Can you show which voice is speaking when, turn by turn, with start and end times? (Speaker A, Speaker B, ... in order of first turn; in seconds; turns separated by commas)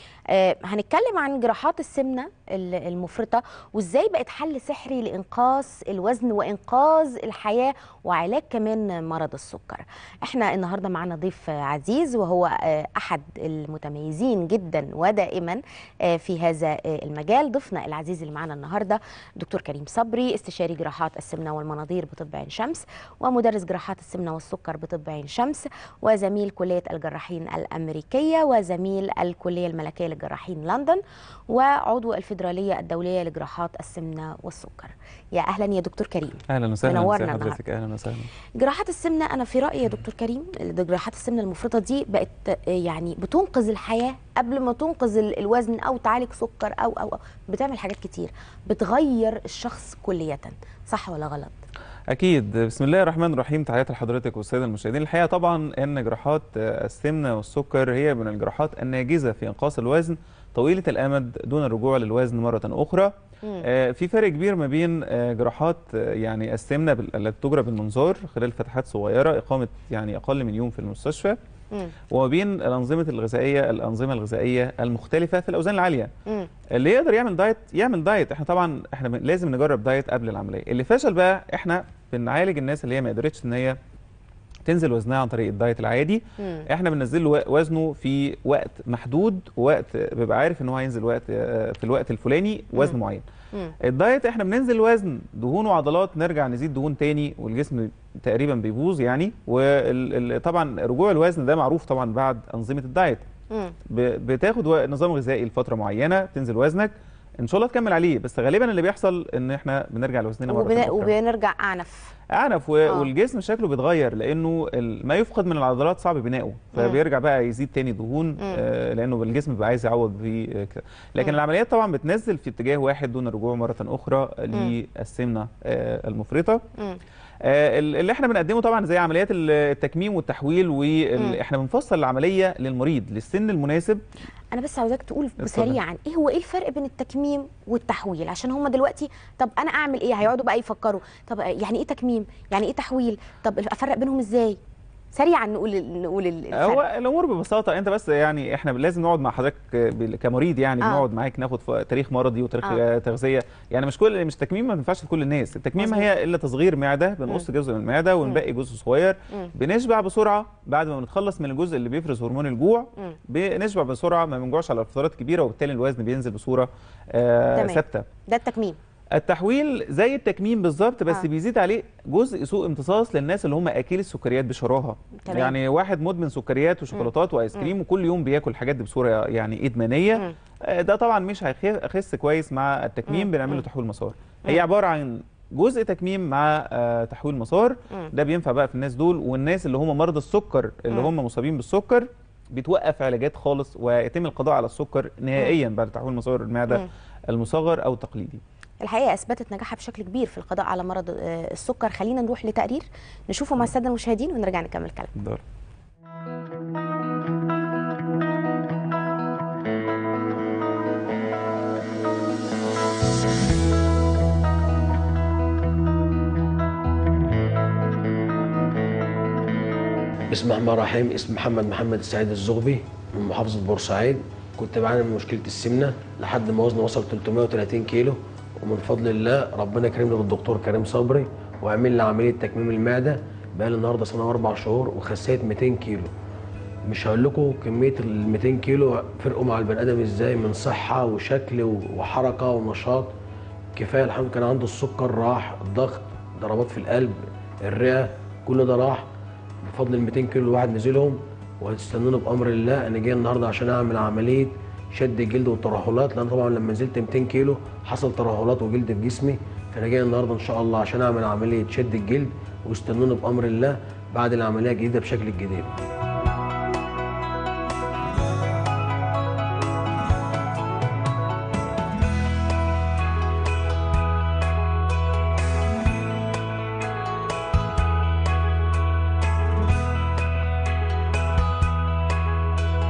Speaker A: 0.3-37.6, Speaker B: 36.5-38.3, Speaker A: 38.6-51.5, Speaker B: 52.1-71.4, Speaker B: 72.1-76.1, Speaker B: 76.7-83.8, Speaker B: 84.7-93.3, Speaker A: 86.4-86.7, Speaker B: 93.8-103.3, Speaker B: 103.9-111.1, Speaker A: 110.5-112.1, Speaker B: 112.3-126.6, Speaker A: 116.8-117.0, Speaker B: 127.4-134.0, Speaker A: 134.5-144.6, Speaker B: 135.4-135.8, Speaker A: 145.1-146.8, Speaker B: 146.6-168.1, Speaker A: 155.8-156.1, Speaker A: 167.6-168.8, Speaker B: 169.2-198.4, Speaker A: 175.2-175.6, Speaker A: 176.9-177.7, Speaker A: 183.1-183.6, Speaker A: 198.8-205.1, Speaker B: 205.2-205.4, Speaker C: 220.3-236.1, Speaker C: 236.9-243.1, Speaker C: 243.8-249.1, Speaker C: 249.7-265.7